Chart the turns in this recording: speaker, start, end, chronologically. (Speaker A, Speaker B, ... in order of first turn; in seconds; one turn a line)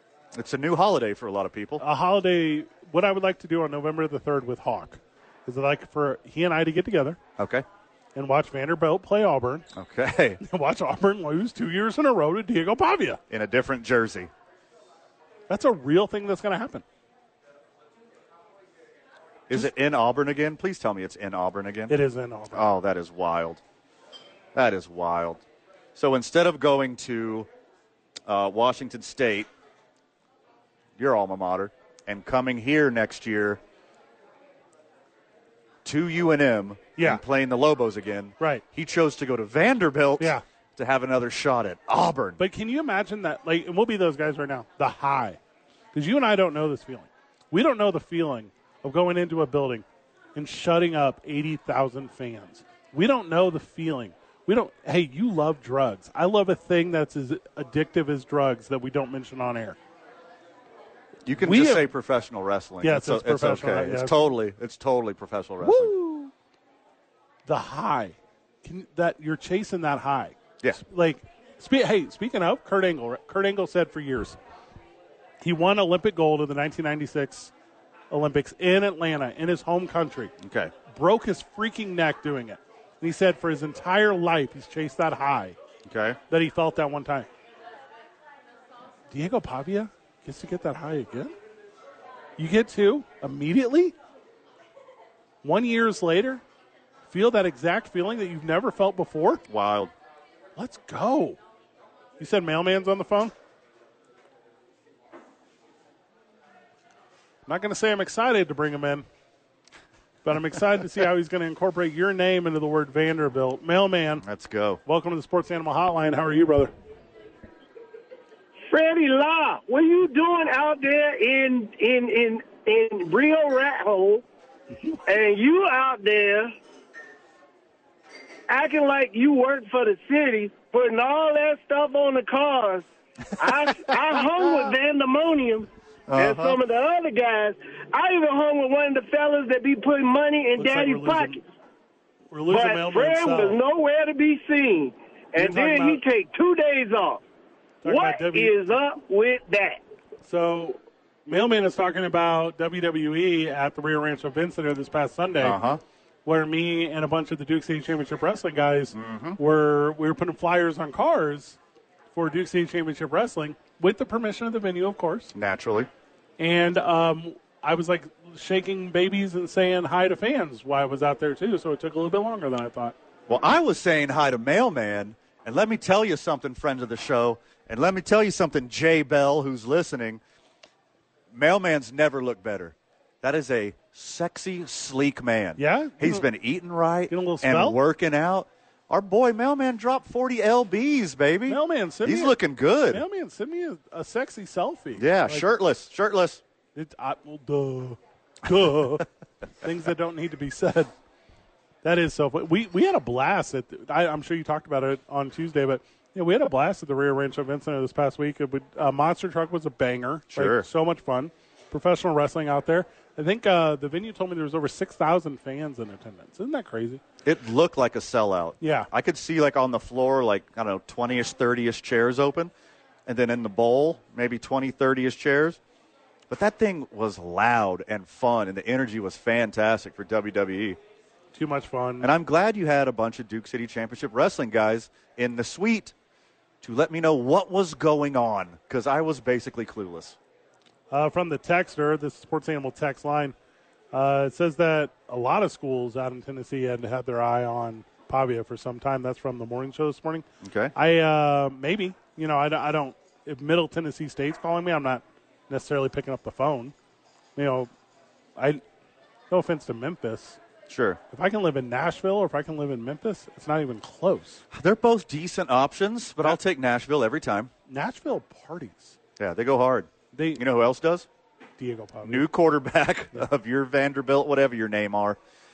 Speaker A: 0.3-1.8
Speaker B: 1.8-7.2
Speaker A: 7.4-7.6
Speaker B: 8.1-9.7
Speaker A: 9.7-10.4
Speaker B: 10.4-13.2
Speaker A: 13.3-14.3
Speaker B: 15.5-16.8
Speaker A: 19.5-22.0
Speaker B: 21.9-22.7
Speaker A: 22.5-23.6
Speaker A: 24.5-25.4
Speaker A: 25.9-27.5
Speaker A: 28.3-29.5
Speaker A: 31.0-33.6
Speaker A: 35.8-42.4
Speaker B: 37.0-37.2
Speaker B: 42.4-45.4
Speaker B: 45.9-49.8
Speaker B: 50.4-59.8
Speaker A: 61.2-65.9
Speaker B: 61.4-61.9
Speaker B: 62.8-64.3
Speaker B: 65.6-66.3
Speaker B: 67.5-74.4
Speaker B: 75.4-77.5
Speaker B: 78.1-80.3
Speaker A: 80.4-80.7
Speaker B: 80.9-85.6
Speaker A: 85.8-86.2
Speaker B: 86.3-87.3
Speaker B: 89.1-91.3
Speaker B: 92.4-93.9
Speaker B: 95.4-96.4
Speaker B: 97.1-99.4
Speaker A: 99.5-99.9
Speaker B: 100.5-101.4
Speaker B: 102.2-103.3
Speaker B: 107.5-109.0
Speaker B: 110.2-114.2
Speaker A: 114.2-114.8
Speaker B: 114.8-116.7
Speaker C: 118.7-124.2
Speaker C: 125.0-126.5
Speaker C: 128.5-132.8
Speaker C: 133.4-141.4
Speaker A: 136.1-136.6
Speaker B: 140.6-141.4
Speaker B: 142.3-143.6
Speaker C: 142.5-147.2
Speaker B: 145.3-146.0
Speaker B: 147.8-148.6
Speaker C: 147.8-149.8
Speaker B: 150.2-155.6
Speaker A: 155.4-155.8
Speaker B: 156.2-161.6
Speaker A: 158.9-159.4
Speaker B: 162.1-165.3
Speaker A: 165.3-165.9
Speaker B: 166.4-172.9
Speaker A: 173.3-180.2
Speaker A: 181.3-193.0
Speaker B: 185.6-186.3
Speaker B: 187.1-187.8
Speaker B: 191.5-192.4
Speaker B: 192.9-195.5
Speaker A: 195.0-196.4
Speaker B: 196.7-199.1
Speaker B: 199.6-200.9
Speaker B: 201.8-217.0
Speaker A: 210.3-210.7
Speaker A: 217.2-222.5
Speaker B: 218.6-218.9
Speaker A: 223.1-225.6
Speaker A: 226.3-230.8
Speaker B: 231.3-232.1
Speaker A: 232.0-235.9
Speaker A: 236.6-240.2
Speaker B: 240.9-243.3
Speaker B: 243.9-256.7
Speaker A: 250.4-250.7
Speaker B: 257.4-257.7
Speaker B: 258.4-258.6
Speaker B: 259.3-260.4
Speaker A: 260.7-261.0
Speaker B: 261.1-264.4
Speaker A: 264.5-267.5
Speaker B: 267.7-268.9
Speaker A: 269.2-271.1
Speaker B: 270.1-270.4
Speaker B: 271.6-272.3
Speaker A: 272.0-275.2